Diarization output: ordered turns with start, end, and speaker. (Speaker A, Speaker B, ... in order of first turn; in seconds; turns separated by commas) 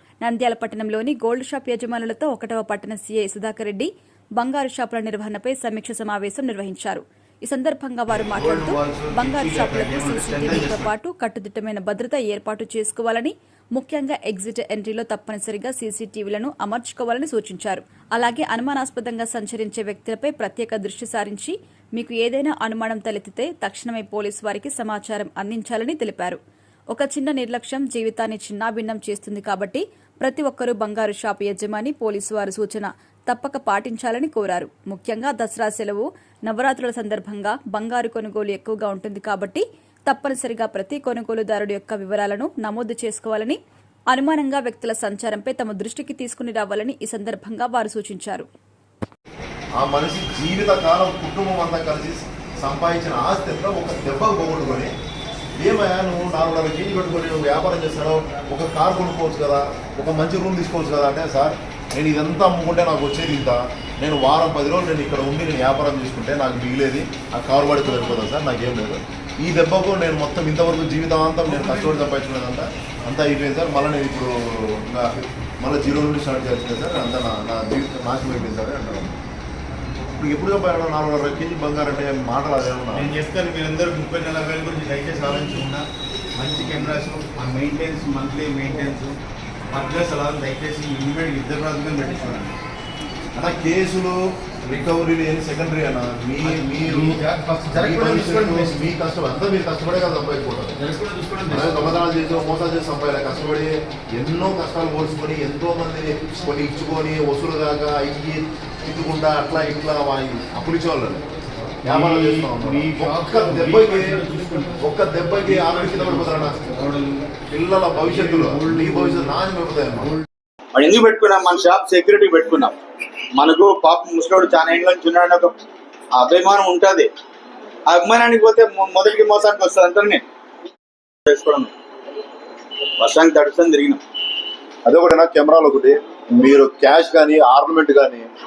Speaker A: 0.2-26.4, Speaker B: 8.3-10.9, Speaker A: 26.9-43.6, Speaker A: 44.1-48.5, Speaker C: 49.8-54.9, Speaker C: 55.6-79.1, Speaker B: 71.5-72.0, Speaker C: 80.2-83.1, Speaker B: 82.9-89.2, Speaker B: 89.7-92.6, Speaker C: 93.3-97.2, Speaker B: 96.4-98.9, Speaker C: 97.7-100.8, Speaker B: 100.8-102.0, Speaker C: 101.5-111.2, Speaker C: 111.8-114.2, Speaker B: 111.8-114.8, Speaker C: 114.8-116.8, Speaker B: 115.4-117.4, Speaker C: 117.5-120.1, Speaker B: 117.9-119.4, Speaker D: 120.7-122.8, Speaker D: 123.4-125.6, Speaker D: 126.2-127.1, Speaker D: 127.9-130.2, Speaker D: 131.2-131.7, Speaker D: 133.0-134.0, Speaker C: 134.8-138.3